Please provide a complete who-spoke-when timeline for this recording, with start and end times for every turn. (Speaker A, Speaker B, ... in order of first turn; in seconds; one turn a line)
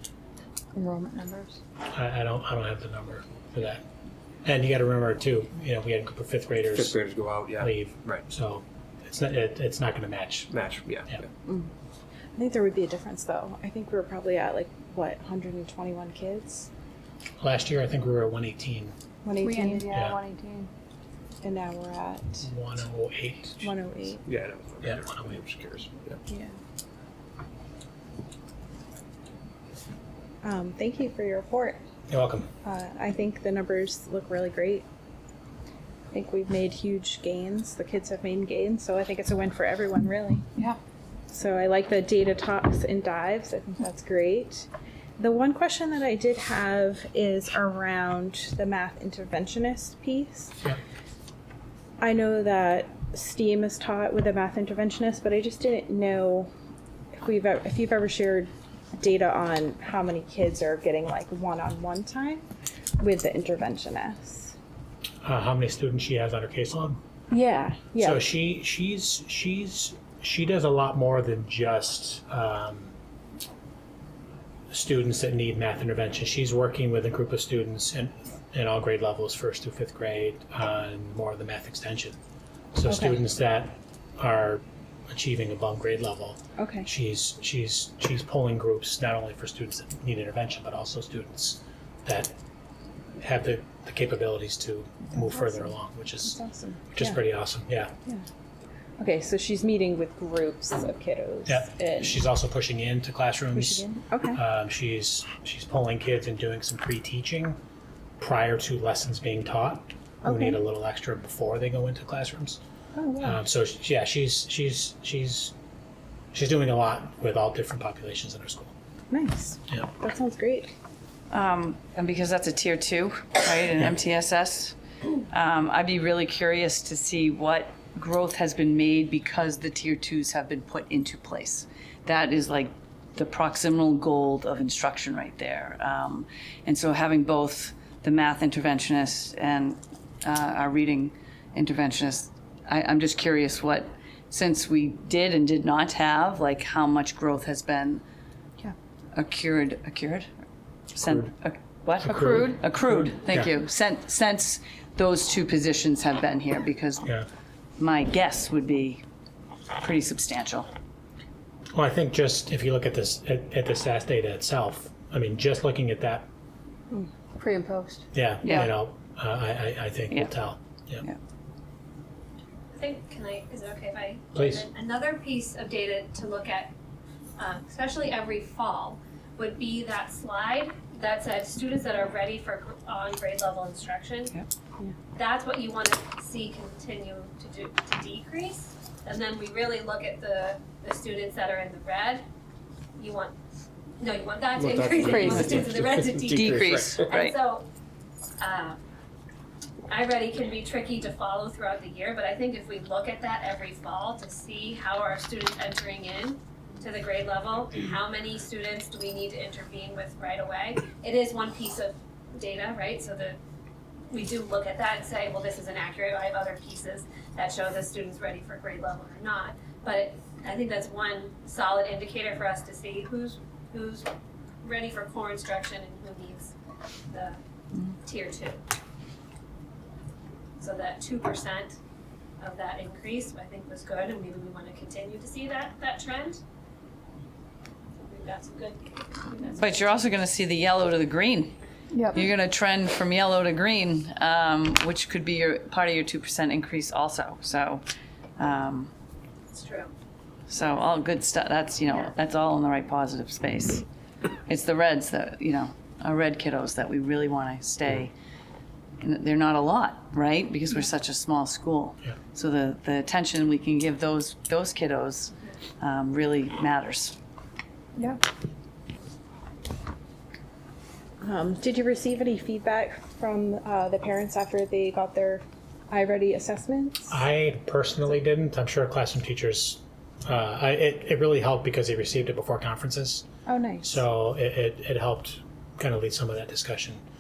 Speaker A: 0.8-1.6
Speaker B: 1.9-3.8
Speaker B: 4.5-7.0
Speaker C: 6.7-8.2
Speaker B: 7.6-10.5
Speaker C: 10.5-11.3
Speaker D: 12.4-16.7
Speaker B: 17.4-18.9
Speaker D: 19.2-19.9
Speaker A: 19.4-20.7
Speaker B: 19.9-20.2
Speaker D: 21.4-22.5
Speaker B: 22.4-23.7
Speaker D: 23.6-24.2
Speaker C: 24.3-26.2
Speaker B: 24.8-25.4
Speaker D: 26.3-26.6
Speaker D: 30.4-31.8
Speaker B: 32.1-32.5
Speaker D: 32.6-34.9
Speaker D: 36.1-40.5
Speaker D: 41.3-50.6
Speaker D: 52.0-56.5
Speaker D: 57.1-62.4
Speaker D: 63.0-64.5
Speaker B: 65.2-67.0
Speaker D: 67.3-68.2
Speaker B: 68.0-72.9
Speaker B: 74.7-82.2
Speaker B: 82.7-92.3
Speaker D: 82.9-83.2
Speaker D: 86.6-86.9
Speaker B: 93.2-96.4
Speaker D: 95.2-95.7
Speaker D: 96.2-97.2
Speaker B: 96.9-97.9
Speaker D: 99.0-102.2
Speaker B: 101.5-107.6
Speaker D: 103.5-104.4
Speaker B: 108.2-112.6
Speaker D: 110.2-110.6
Speaker D: 113.0-113.4
Speaker B: 113.2-115.5
Speaker B: 116.3-118.7
Speaker D: 119.1-120.7
Speaker E: 121.3-124.8
Speaker E: 125.3-148.0
Speaker E: 149.2-150.3
Speaker E: 150.9-157.1
Speaker B: 152.0-153.5
Speaker E: 157.8-159.0
Speaker E: 159.8-160.7
Speaker B: 161.7-166.3
Speaker A: 167.3-168.1
Speaker B: 168.1-171.1
Speaker F: 172.8-176.7
Speaker B: 174.3-174.7
Speaker F: 177.4-184.3
Speaker F: 185.2-192.2
Speaker F: 193.0-193.3
Speaker F: 194.0-197.7
Speaker C: 194.6-197.1
Speaker A: 195.1-195.5
Speaker E: 196.3-197.3
Speaker F: 198.4-198.8
Speaker F: 199.9-213.4
Speaker F: 214.1-224.1
Speaker F: 224.6-226.5
Speaker F: 227.1-227.4
Speaker F: 228.0-228.6
Speaker F: 230.6-231.8
Speaker F: 232.4-236.4
Speaker F: 238.0-239.6
Speaker E: 239.6-241.6
Speaker A: 241.9-242.2
Speaker E: 242.1-247.8
Speaker E: 248.4-248.9
Speaker F: 249.5-249.9
Speaker E: 250.5-253.8
Speaker E: 254.5-258.1
Speaker E: 259.0-267.1
Speaker D: 271.2-277.2
Speaker B: 277.1-283.2
Speaker D: 283.5-284.0
Speaker B: 283.8-287.0